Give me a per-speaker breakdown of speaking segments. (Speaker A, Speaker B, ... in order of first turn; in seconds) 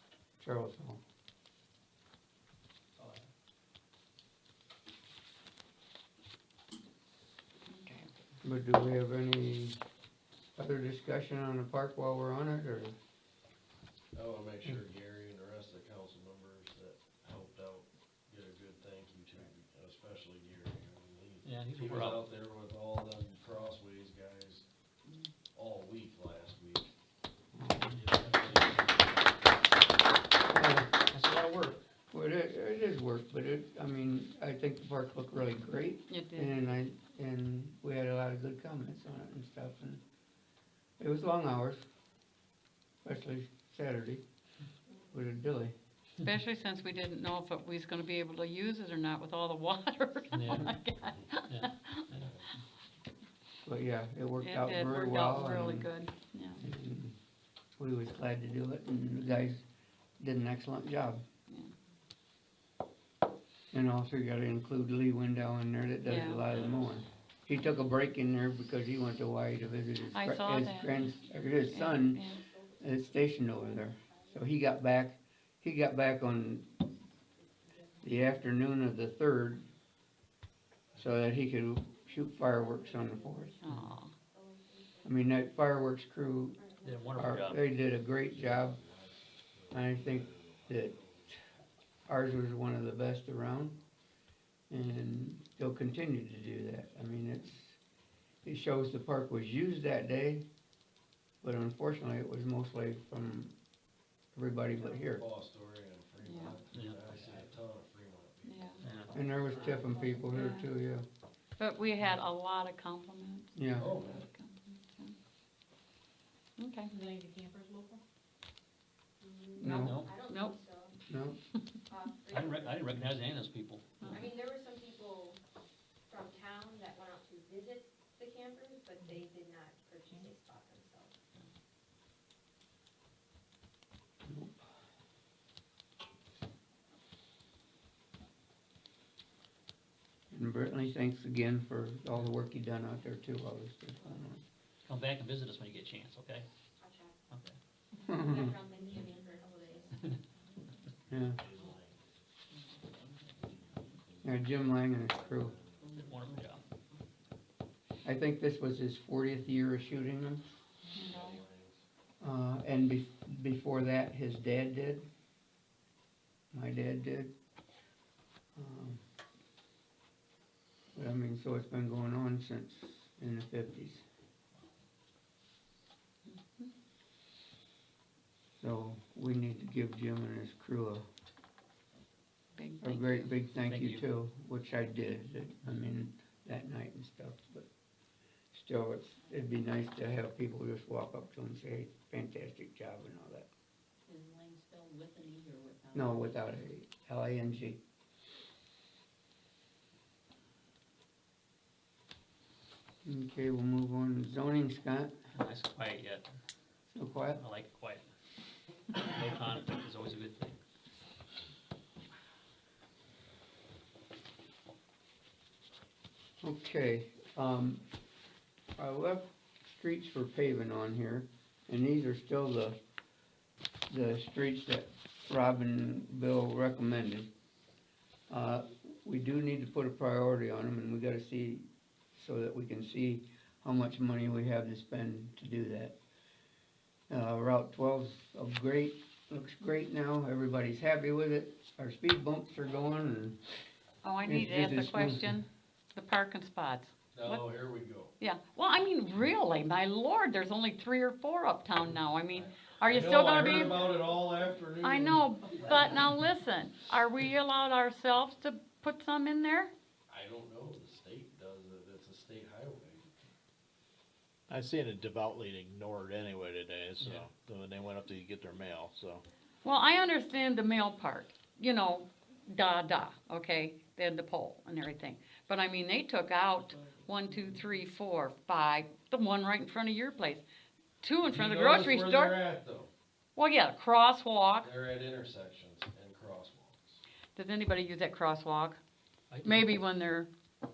Speaker A: 0.4-1.0, 8.4-9.8, 10.6-12.9, 27.5-28.0, 30.5-30.9, 32.1-40.0, 41.0-41.8, 43.0-44.2, 45.1-45.8, 53.6-55.9, 56.6-57.2, 57.8-59.6, 60.2-61.2, 63.7-72.2, 72.8-76.7, 78.0-79.7, 81.0-83.6, 85.0-86.6, 87.1-88.8, 89.7-91.4, 92.1-93.8, 94.7-97.8, 98.5-100.5, 101.4-103.5, 104.3-105.2, 109.1-111.1, 113.6-113.9, 119.6-120.0, 121.1-121.4, 134.2-134.6, 140.3-144.4, 148.1-148.5, 151.1-151.4, 154.2-155.6, 158.0-160.4, 162.2-165.1, 166.5-167.3, 168.6-169.0, 170.9-174.0, 178.6-181.1, 182.8-187.7, 188.5-193.5, 195.9-197.8, 203.1-205.1, 206.9-207.4, 216.4-217.8, 218.8-222.8, 223.9-227.3, 228.3-236.0, 237.1-243.4, 244.2-245.4
Speaker B: 3.0-3.2, 21.4-22.2, 27.9-28.9, 31.0-31.8, 50.3-50.7, 51.5-52.3, 86.8-87.6, 106.7-107.4, 108.8-109.1, 119.7-120.1, 122.3-124.2, 144.8-146.5, 147.3-147.6, 155.9-156.6, 183.7-184.0, 205.3-206.3, 207.2-208.1, 208.9-210.6, 289.3-289.7
Speaker C: 7.7-8.1, 36.1-36.6, 46.2-52.0, 54.4-56.6, 66.1-66.5, 70.1-72.4, 83.6-84.1, 106.2-106.6, 108.4-108.8, 110.3-110.7, 111.6-115.1, 116.6-116.9, 119.6-120.6, 160.9-161.4, 176.3-176.7, 182.6-183.2, 244.0-247.5, 248.2-253.9, 254.8-259.7, 269.6-280.4, 281.0-282.4, 283.4-284.8, 287.4-288.8, 289.4-290.3
Speaker D: 14.1-24.6, 25.5-26.9, 28.1-29.3, 88.2-91.5, 105.0-109.0, 113.7-114.3, 151.1-152.2, 153.4-154.4, 155.2-155.9, 161.0-161.8, 247.2-248.1, 252.4-256.0, 260.1-263.1, 281.2-282.9, 284.6-287.0
Speaker E: 72.2-74.4, 82.1-85.4, 86.5-87.4, 109.5-110.1, 119.2-121.0, 121.9-123.0, 124.1-125.4, 126.1-131.1, 146.8-147.2, 148.0-150.1
Speaker F: 152.5-154.0, 155.8-157.0, 194.1-196.4
Speaker G: 264.5-269.2